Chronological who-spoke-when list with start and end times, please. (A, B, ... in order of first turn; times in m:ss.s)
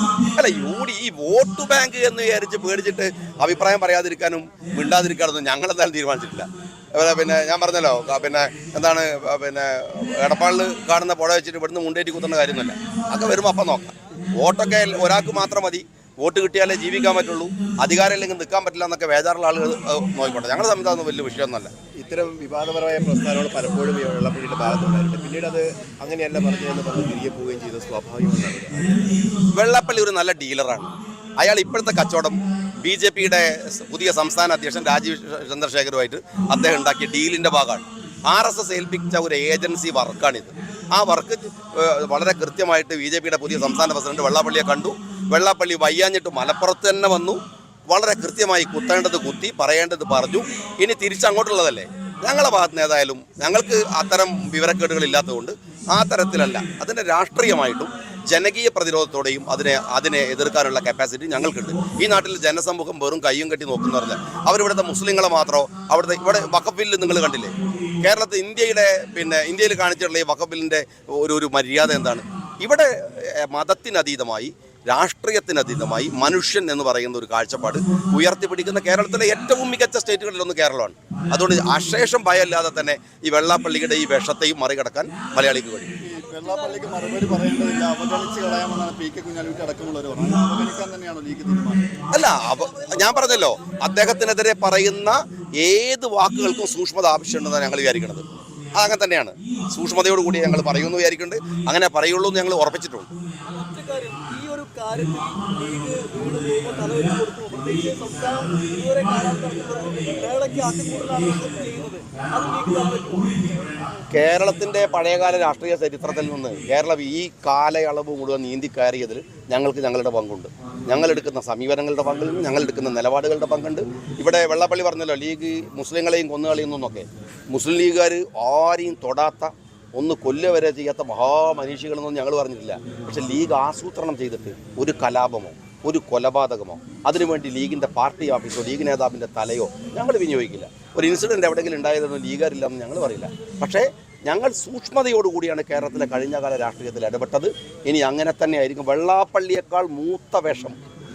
0:00.2-0:21.8 A
0:21.9-0:29.1 B
0:29.4-1:26.0 A
1:26.0-1:31.9 C
1:26.5-1:27.3 B
1:28.3-1:29.8 B
1:30.7-1:31.4 B
1:32.1-1:43.1 A
1:43.4-1:53.9 D
1:54.1-2:30.8 A